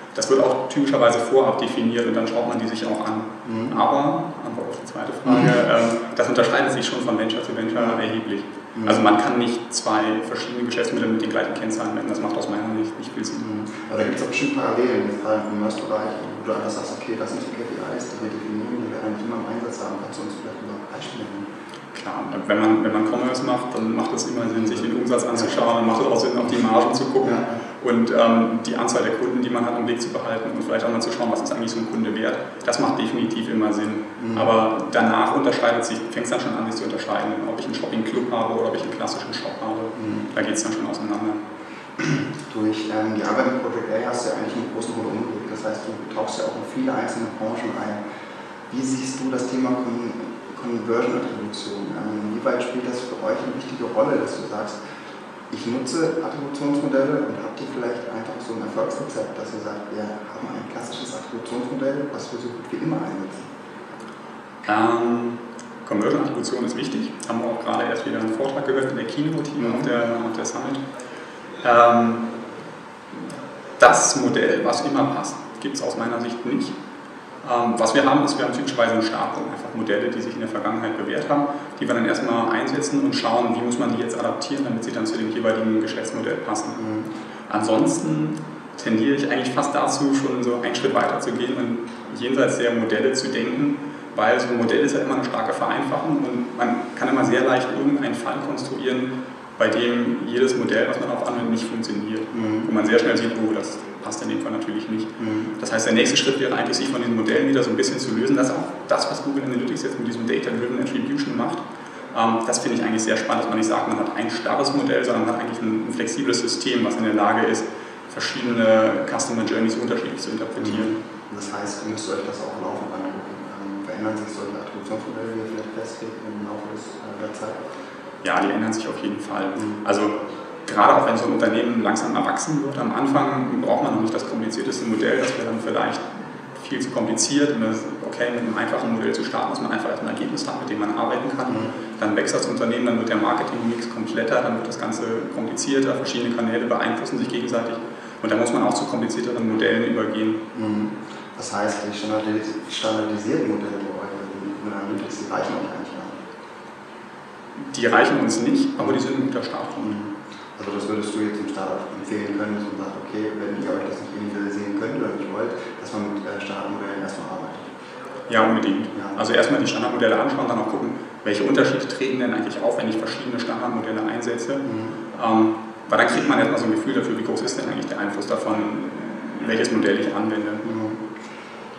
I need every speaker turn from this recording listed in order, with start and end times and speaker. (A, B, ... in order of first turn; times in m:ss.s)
0:00.1-0:13.5 A
0:03.4-0:03.7 B
0:05.2-0:05.6 B
0:08.7-0:09.1 B
0:13.4-0:21.5 B
0:21.9-0:41.4 A
0:24.5-0:25.6 B
0:27.2-0:27.6 B
0:34.2-0:34.5 B
0:40.0-0:40.3 B
0:42.0-0:48.0 B
0:48.7-0:54.8 B
0:55.5-1:03.4 B
1:04.6-1:10.8 A
1:09.6-1:09.9 B
1:11.6-1:12.2 A
1:13.8-1:16.8 A
1:17.4-1:26.8 A
1:26.8-1:27.1 B
1:27.5-1:51.6 A
1:42.3-1:42.7 B
1:45.2-1:45.5 B
1:52.1-2:01.0 A
2:00.6-2:07.6 B
2:08.2-2:10.1 A
2:10.6-2:30.4 A
2:21.4-2:21.7 B
2:30.5-2:36.2 B
2:37.7-2:40.0 A
2:39.8-2:47.6 B
2:48.3-3:00.6 A
2:48.9-2:49.2 B
2:54.6-2:55.0 B
3:00.6-3:01.1 B